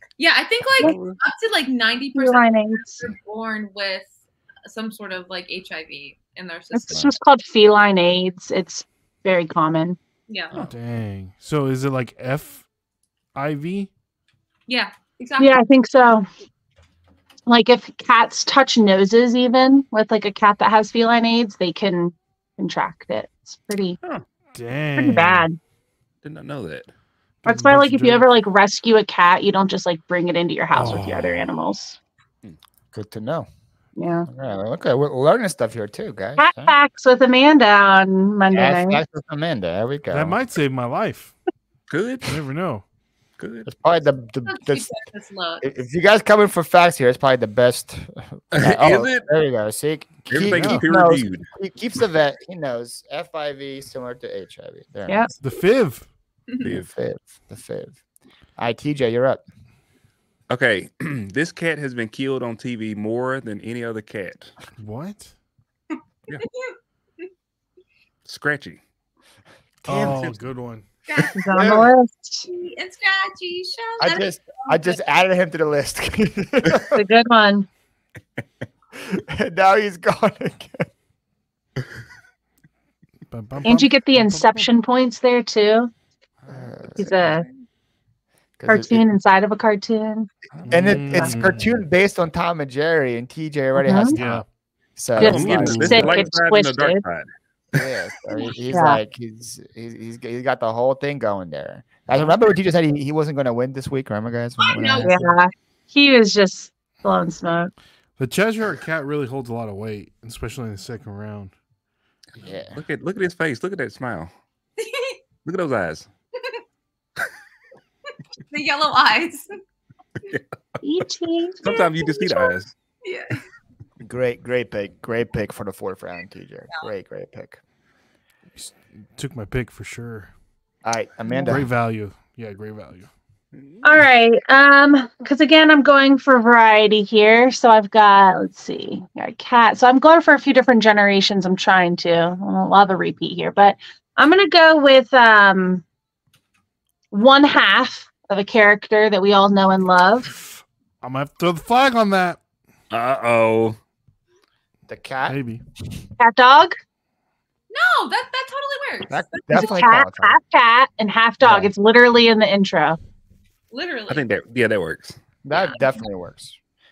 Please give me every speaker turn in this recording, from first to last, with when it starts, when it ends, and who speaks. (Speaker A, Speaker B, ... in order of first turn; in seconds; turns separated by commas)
Speaker A: 0.2-4.1, Speaker B: 0.8-1.2, Speaker C: 2.1-3.1, Speaker A: 4.7-7.1, Speaker C: 6.7-10.0, Speaker A: 10.3-10.5, Speaker B: 10.5-10.8, Speaker D: 10.6-12.6, Speaker D: 13.3-13.9, Speaker A: 14.7-15.6, Speaker C: 15.4-16.2, Speaker C: 17.5-24.0, Speaker D: 24.5-25.5, Speaker C: 25.0-25.6, Speaker B: 26.2-26.9, Speaker D: 27.4-28.3, Speaker C: 27.4-32.0, Speaker D: 30.7-31.4, Speaker E: 32.9-33.5, Speaker C: 34.0-34.3, Speaker E: 34.3-36.7, Speaker C: 36.4-39.0, Speaker E: 38.5-40.4, Speaker D: 40.1-41.3, Speaker B: 41.9-42.4, Speaker D: 42.2-42.8, Speaker B: 43.4-43.7, Speaker E: 43.6-44.9, Speaker A: 44.5-45.6, Speaker E: 45.6-55.3, Speaker B: 48.5-49.3, Speaker B: 50.3-51.5, Speaker D: 50.5-50.8, Speaker D: 55.4-56.1, Speaker E: 56.6-58.0, Speaker E: 58.6-59.4, Speaker B: 60.5-64.5, Speaker D: 64.8-65.3, Speaker A: 65.9-67.3, Speaker B: 68.2-68.8, Speaker D: 69.8-70.8, Speaker E: 69.9-70.2, Speaker B: 69.9-70.4, Speaker A: 71.1-71.8, Speaker C: 71.3-72.5, Speaker E: 71.5-71.9, Speaker A: 72.5-75.0, Speaker E: 74.0-77.0, Speaker C: 76.9-77.7, Speaker E: 79.0-80.9, Speaker D: 83.3-84.7, Speaker C: 83.7-85.9, Speaker E: 86.5-87.5, Speaker C: 87.0-87.4, Speaker E: 88.6-89.0, Speaker C: 88.7-90.3, Speaker B: 90.6-91.0, Speaker D: 90.7-91.8, Speaker E: 90.7-94.4, Speaker C: 93.8-94.2, Speaker D: 94.1-94.5, Speaker E: 95.0-96.2, Speaker C: 95.2-97.0, Speaker B: 95.2-97.8, Speaker D: 95.2-96.3, Speaker E: 97.8-105.3, Speaker C: 98.7-99.0, Speaker A: 104.6-105.1, Speaker C: 104.8-107.7, Speaker D: 108.2-111.5, Speaker E: 112.4-112.8, Speaker B: 112.7-114.3, Speaker A: 114.8-115.2, Speaker B: 115.4-116.1, Speaker A: 118.5-119.5, Speaker B: 120.2-120.5, Speaker C: 120.8-121.6, Speaker B: 121.6-122.7, Speaker A: 121.6-123.4, Speaker E: 124.0-127.6, Speaker D: 128.6-130.3, Speaker E: 130.8-131.7, Speaker C: 131.3-131.6, Speaker D: 131.5-133.1, Speaker B: 133.5-133.8, Speaker C: 133.8-145.8, Speaker C: 147.1-150.3, Speaker D: 150.4-152.4, Speaker B: 152.9-153.8, Speaker E: 154.9-155.4, Speaker D: 155.3-155.6, Speaker C: 156.2-156.8, Speaker A: 157.7-159.7, Speaker E: 159.1-160.4, Speaker C: 159.5-163.0, Speaker E: 161.4-161.7, Speaker A: 163.7-164.2, Speaker B: 164.1-165.2, Speaker E: 165.4-166.6, Speaker A: 165.5-166.0